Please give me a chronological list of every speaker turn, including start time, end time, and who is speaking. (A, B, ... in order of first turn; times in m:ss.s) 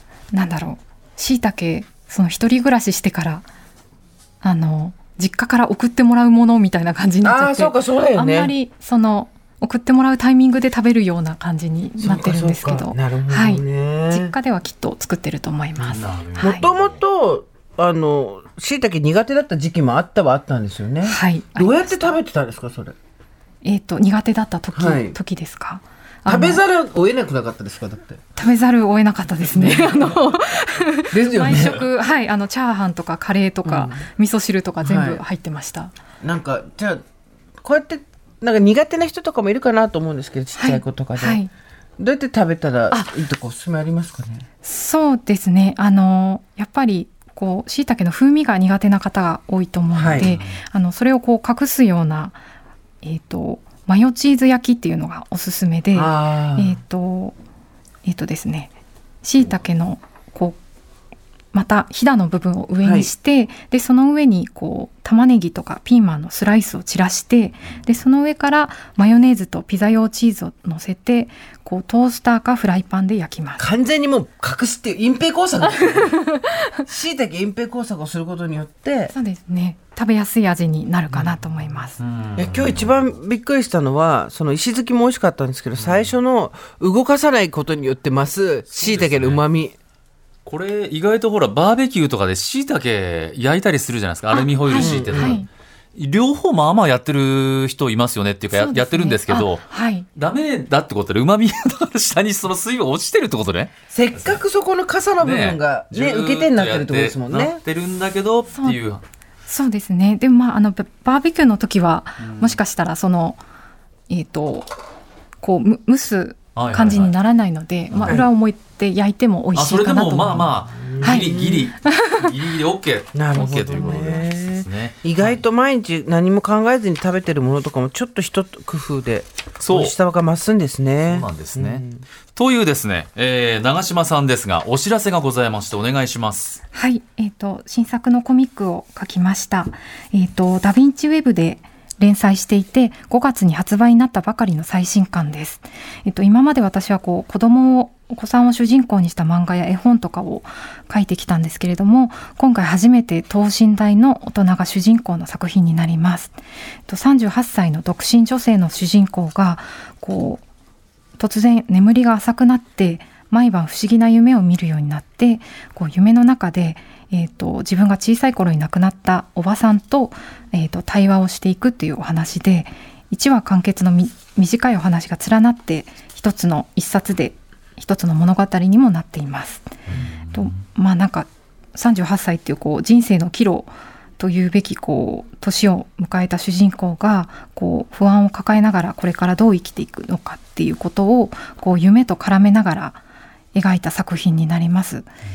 0:00.3-0:03.5 A
0:04.4-0:16.7 A
0:07.2-0:08.5 B
0:12.0-0:14.3 B
0:15.8-0:17.0 C
0:16.4-0:22.9 B
0:21.0-0:22.0 A
0:23.6-0:26.6 A
0:24.7-0:25.2 B
0:26.2-0:28.2 B
0:28.4-0:35.9 A
0:29.4-0:30.2 B
0:31.1-0:31.9 B
0:33.6-0:34.0 B
0:34.8-0:35.2 B
0:36.2-0:37.0 B
0:37.6-0:41.4 B
0:40.6-0:41.5 A
0:42.0-0:44.4 B
0:44.6-0:52.4 A
0:49.9-0:50.3 B
0:50.0-0:50.6 C
0:53.0-0:57.3 A
0:55.9-0:56.8 B
0:58.0-1:00.6 A
1:01.5-1:13.7 A
1:02.8-1:03.1 B
1:13.6-1:19.1 B
1:15.9-1:16.6 A
1:19.1-1:22.0 A
1:21.1-1:21.4 B
1:22.0-1:23.0 C
1:22.4-1:29.7 B
1:25.8-1:26.1 C
1:28.7-1:29.4 C
1:30.4-1:39.6 C
1:34.3-1:35.5 A
1:34.7-1:35.4 B
1:38.5-1:40.1 A
1:40.2-1:44.4 C
1:43.9-1:47.6 B
1:45.2-1:49.0 C
1:48.5-1:48.8 A
1:49.5-1:53.4 A
1:52.2-1:52.6 C
1:54.1-1:54.7 A
1:55.4-2:01.3 A
1:56.6-1:57.1 C
1:57.9-1:58.2 C
1:58.0-1:58.3 B
1:59.5-2:05.4 C
2:00.9-2:01.7 B
2:01.8-2:02.3 A
2:03.1-2:12.0 B
2:09.6-2:10.0 C
2:11.1-2:16.6 C
2:16.7-2:40.4 A
2:41.2-2:59.7 A
2:59.9-3:00.6 C
3:00.3-3:13.0 A
3:13.5-3:15.1 A